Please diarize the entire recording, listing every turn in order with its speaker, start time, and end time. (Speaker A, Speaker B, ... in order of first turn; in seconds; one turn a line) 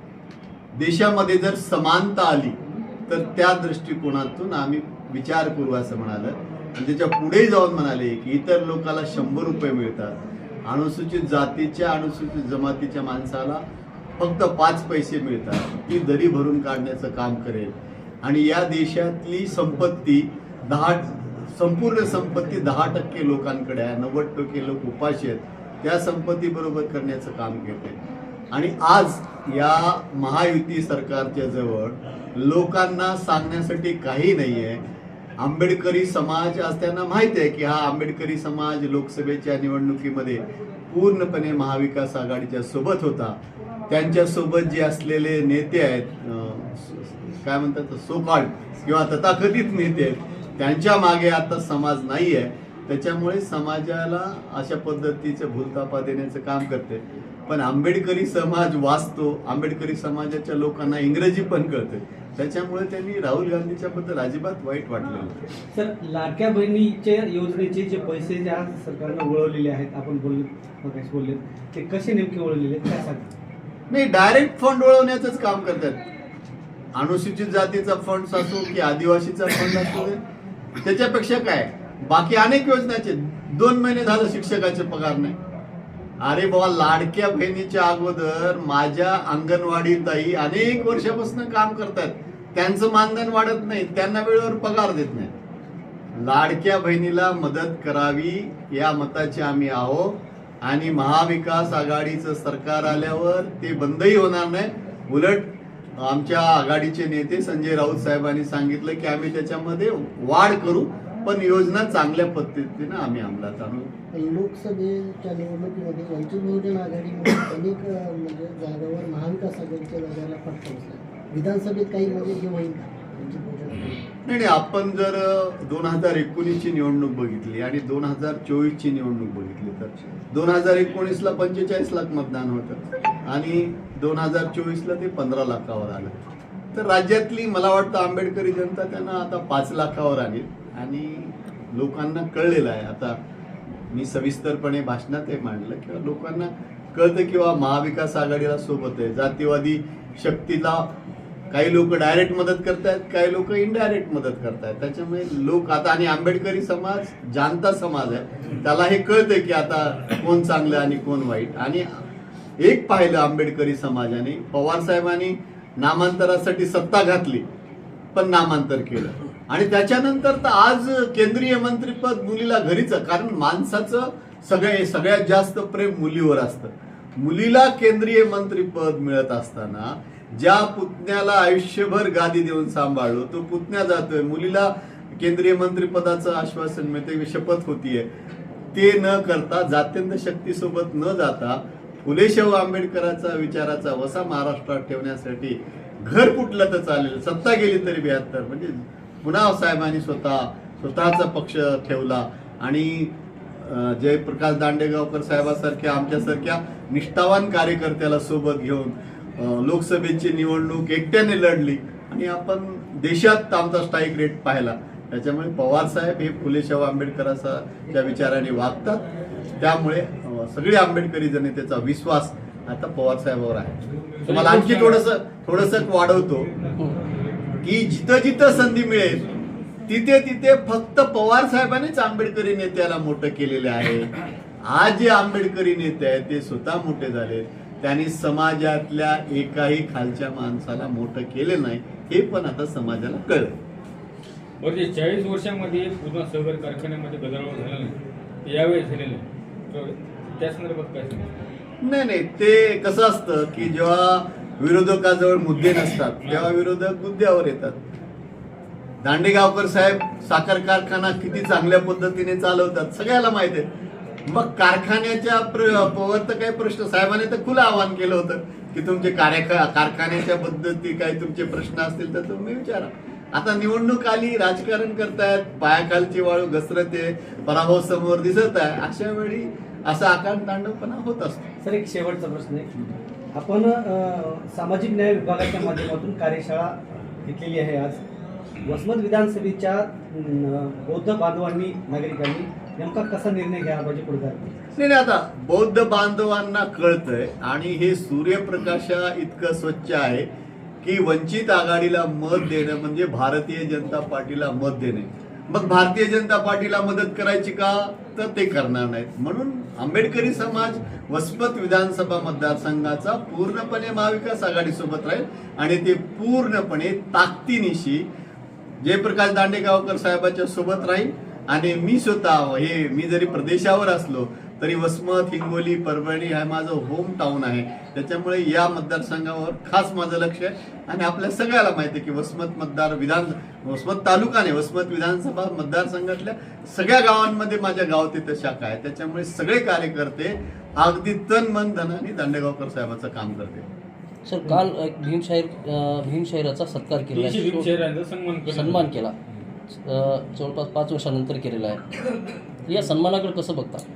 Speaker A: 0.7-10.1
Speaker A: 10.7-13.6
Speaker A: 14.2-28.0
Speaker A: 28.5-34.8
Speaker A: 35.4-43.4
Speaker A: 43.9-65.4
Speaker B: 65.7-73.3
Speaker A: 73.9-76.0
Speaker A: 77.0-80.2
Speaker A: 80.8-85.3
Speaker A: 86.2-95.3
Speaker A: 96.2-113.9
Speaker C: 114.2-124.0
Speaker A: 124.2-136.2
Speaker A: 136.7-143.1
Speaker A: 143.9-150.8
Speaker A: 151.5-161.9
Speaker A: 162.6-167.4
Speaker A: 168.1-188.1
Speaker A: 188.7-219.0
Speaker A: 219.6-223.7
Speaker D: 224.2-225.0
Speaker A: 224.3-226.5
Speaker A: 227.6-229.3
Speaker A: 229.9-243.6
Speaker D: 244.6-251.5
Speaker A: 251.8-257.8
Speaker A: 259.0-263.7
Speaker A: 264.3-281.5
Speaker B: 281.6-282.7
Speaker B: 283.3-288.0
Speaker B: 288.6-294.5
Speaker A: 294.7-300.2
Speaker A: 300.8-318.1
Speaker A: 318.8-343.6
Speaker E: 344.2-347.7
Speaker D: 347.1-348.9
Speaker E: 348.4-349.1
Speaker E: 349.7-353.8